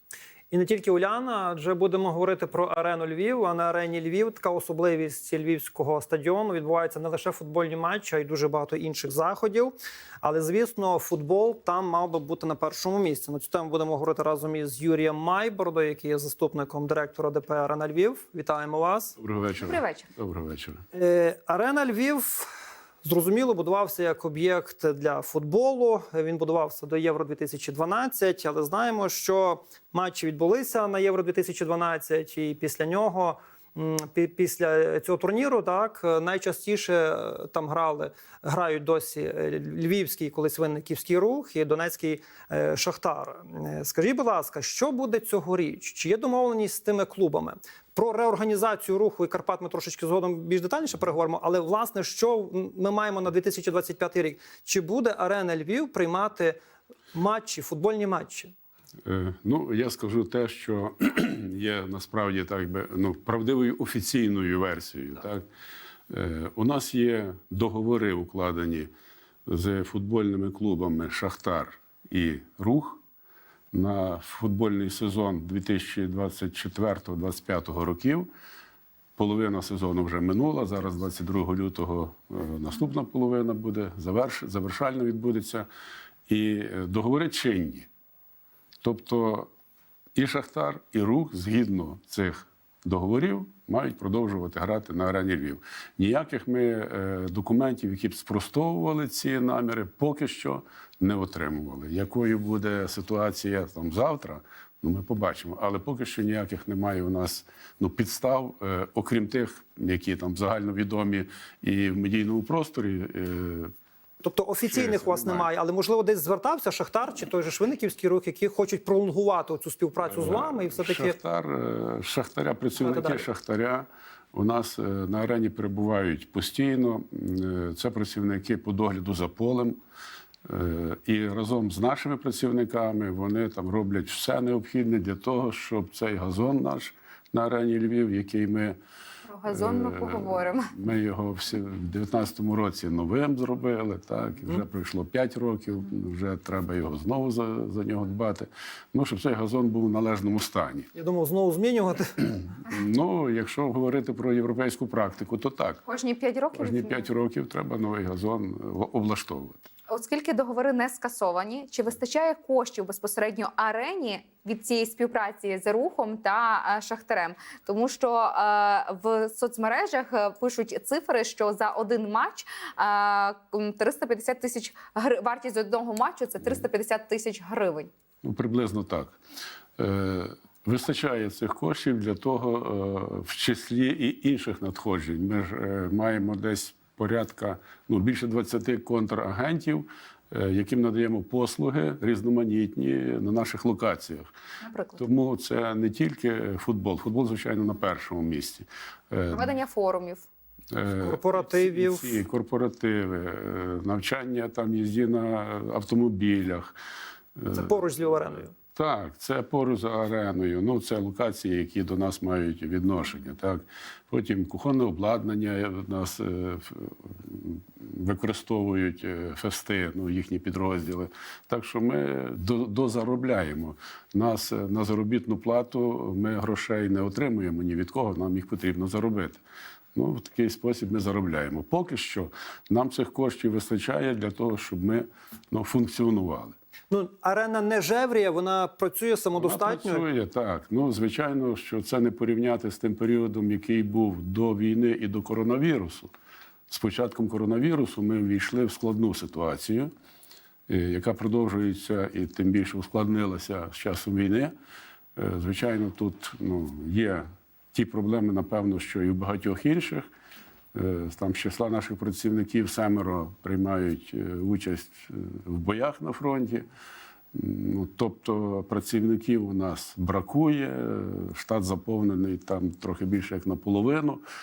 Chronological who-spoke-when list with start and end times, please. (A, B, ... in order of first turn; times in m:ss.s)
0:00.5-0:19.1 A
0:19.2-0:20.8 B
0:19.6-0:20.1 C
0:20.9-0:22.5 A
0:23.0-0:56.6 A
0:57.1-0:58.5 A
0:59.0-1:05.4 B
1:06.1-1:08.9 B
1:09.4-1:13.0 B
1:13.7-1:18.3 B
1:19.2-1:25.7 B
1:26.3-1:27.9 B
1:28.8-1:29.5 B
1:30.1-1:53.7 B
1:54.2-2:01.2 A
1:54.7-1:55.5 B
2:00.0-2:09.8 B
2:02.8-2:03.2 A
2:10.4-2:18.8 B
2:19.2-2:20.8 C
2:19.5-2:30.9 B
2:30.9-2:32.2 A
2:32.6-2:35.8 B
2:35.8-2:37.1 C
2:36.5-2:39.6 B
2:39.9-2:57.9 C
2:58.2-2:59.1 B
2:59.8-3:14.3 B
3:14.6-3:15.0 C
3:15.0-3:19.5 B
3:19.3-3:20.2 C
3:20.7-3:26.7 B
3:21.0-3:22.2 A
3:27.4-3:27.7 B
3:27.5-3:28.5 A
3:28.7-3:49.4 B
3:49.9-3:56.5 B
3:56.9-4:00.0 A
3:59.4-4:06.1 B
4:06.7-4:09.9 B
4:10.7-4:14.5 B
4:15.2-4:20.1 B
4:20.7-4:26.6 B
4:27.3-4:34.2 B